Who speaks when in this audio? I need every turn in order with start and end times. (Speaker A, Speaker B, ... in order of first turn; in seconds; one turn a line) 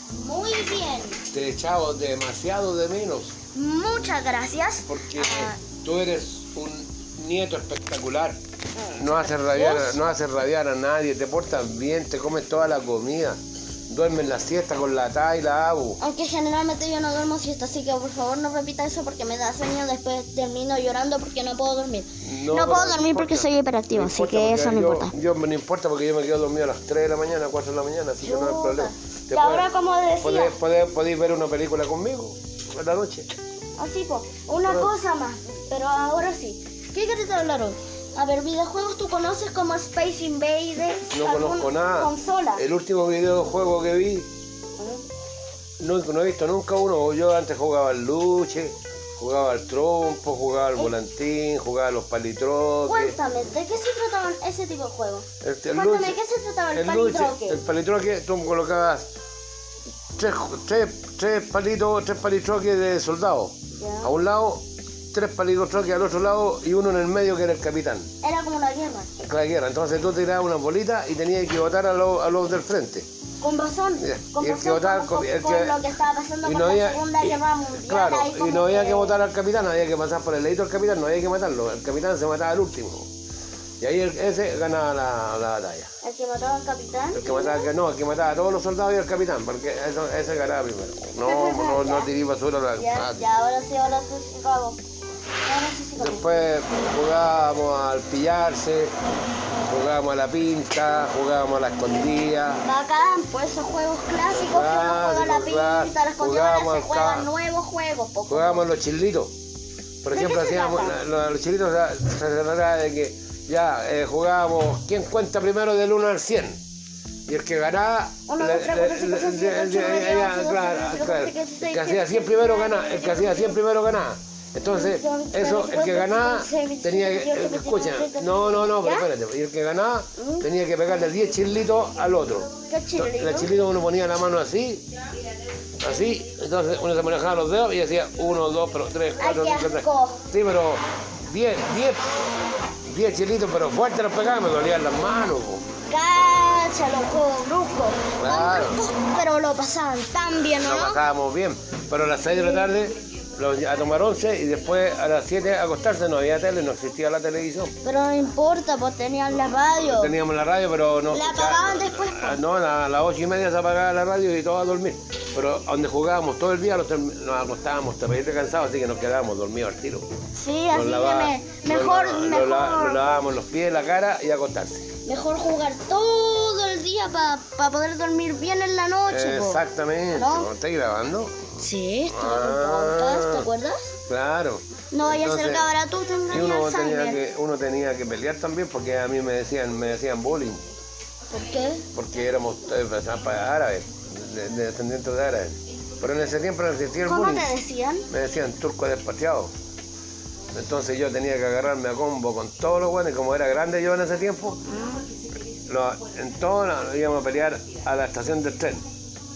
Speaker A: 0.1-1.2
Speaker B: 1.3-3.3
Speaker A: 3.5-5.6
Speaker B: 4.8-8.4
Speaker A: 8.8-10.0
Speaker B: 8.9-16.0
Speaker A: 16.0-25.1
Speaker B: 22.2-33.3
Speaker A: 28.2-30.5
Speaker A: 33.8-42.6
Speaker B: 34.6-34.9
Speaker B: 41.1-44.3
Speaker A: 44.8-45.0
Speaker B: 45.8-53.1
Speaker A: 52.9-57.6
Speaker B: 55.4-56.2
Speaker B: 56.7-59.1
Speaker B: 60.1-64.6
Speaker A: 63.7-64.1
Speaker B: 65.1-68.1
Speaker A: 68.2-69.1
Speaker B: 69.2-73.0
Speaker A: 73.4-79.2
Speaker B: 74.0-75.8
Speaker B: 76.4-83.1
Speaker B: 83.8-85.9
Speaker A: 86.0-87.7
Speaker B: 87.1-93.2
Speaker A: 91.2-92.1
Speaker A: 92.8-94.8
Speaker A: 95.4-96.5
Speaker B: 96.0-98.9
Speaker B: 99.7-102.6
Speaker A: 102.6-108.7
Speaker B: 104.3-107.3
Speaker B: 108.3-109.3
Speaker B: 110.0-116.6
Speaker A: 110.1-111.0
Speaker B: 117.2-134.8
Speaker A: 118.3-123.6
Speaker A: 124.7-129.1
Speaker A: 130.2-130.5
Speaker A: 132.7-133.6
Speaker B: 135.8-142.2
Speaker A: 139.2-140.2
Speaker B: 142.8-145.7
Speaker A: 145.9-151.0
Speaker B: 148.2-148.8
Speaker B: 150.5-157.7
Speaker A: 157.8-160.1
Speaker B: 159.7-170.1
Speaker A: 161.1-162.4
Speaker A: 170.3-173.2
Speaker B: 170.7-174.9
Speaker A: 175.0-180.5
Speaker B: 179.1-181.4
Speaker A: 181.6-183.9
Speaker B: 182.1-183.5
Speaker B: 184.1-185.7
Speaker A: 184.9-187.2
Speaker B: 186.3-190.6
Speaker A: 191.3-191.8
Speaker B: 191.9-197.5
Speaker A: 197.0-198.1
Speaker B: 198.1-199.5
Speaker B: 200.5-204.6
Speaker A: 204.7-205.0
Speaker B: 205.7-208.8